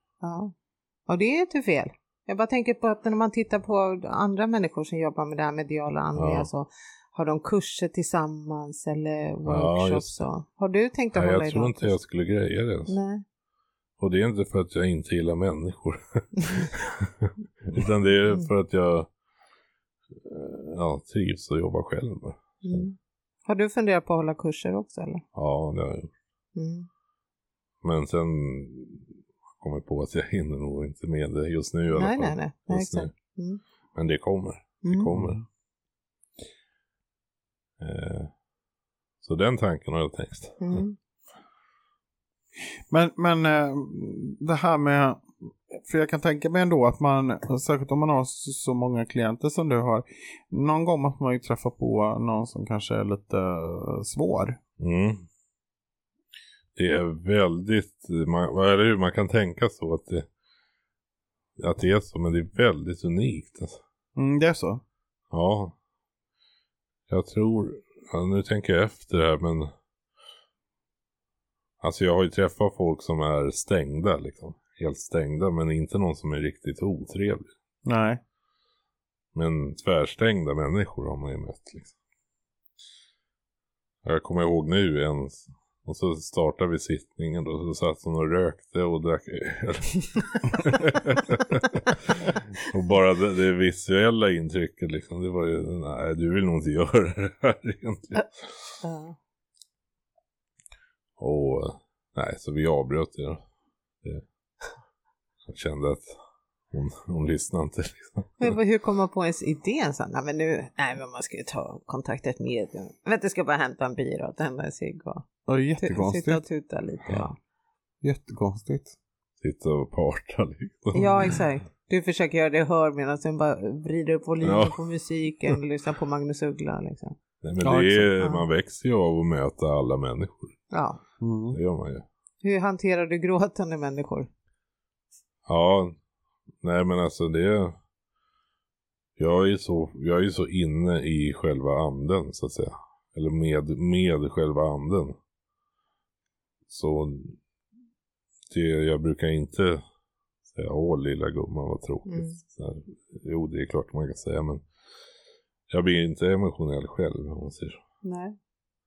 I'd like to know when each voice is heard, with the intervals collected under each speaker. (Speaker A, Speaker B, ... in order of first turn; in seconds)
Speaker A: 0.2-0.5, 1.1-12.0, 12.9-13.2, 22.6-22.9, 23.5-25.2, 26.6-26.9, 31.9-33.6, 34.8-35.1, 40.6-41.0, 98.8-99.2, 108.4-115.3, 115.8-117.4, 120.9-127.2, 128.2-128.4, 130.7-131.0, 132.4-134.3, 152.1-152.4, 158.0-158.4
Speaker B: 6.2-6.5, 9.5-10.2, 11.1-13.0, 14.0-19.1, 20.2-22.9, 25.4-26.1, 27.8-29.1, 29.6-33.1, 34.0-35.4, 37.8-38.3, 39.2-40.8, 54.8-55.3, 56.8-60.3, 61.6-63.8, 65.3-65.8, 67.1-69.7, 71.8-77.5, 79.3-81.9, 84.0-98.7, 101.2-103.4, 105.5-106.1, 106.7-108.5, 119.4-121.3, 124.4-124.8, 127.4-130.6, 131.5-132.1, 135.5-136.0, 136.6-137.8, 139.2-145.2, 146.7-147.4, 148.5-149.8, 150.5-154.7, 155.7-157.8
Speaker C: 35.1-35.4, 42.9-54.6, 64.2-64.8, 77.9-78.2, 115.5-116.4, 118.0-119.0, 127.6-128.1, 131.2-131.6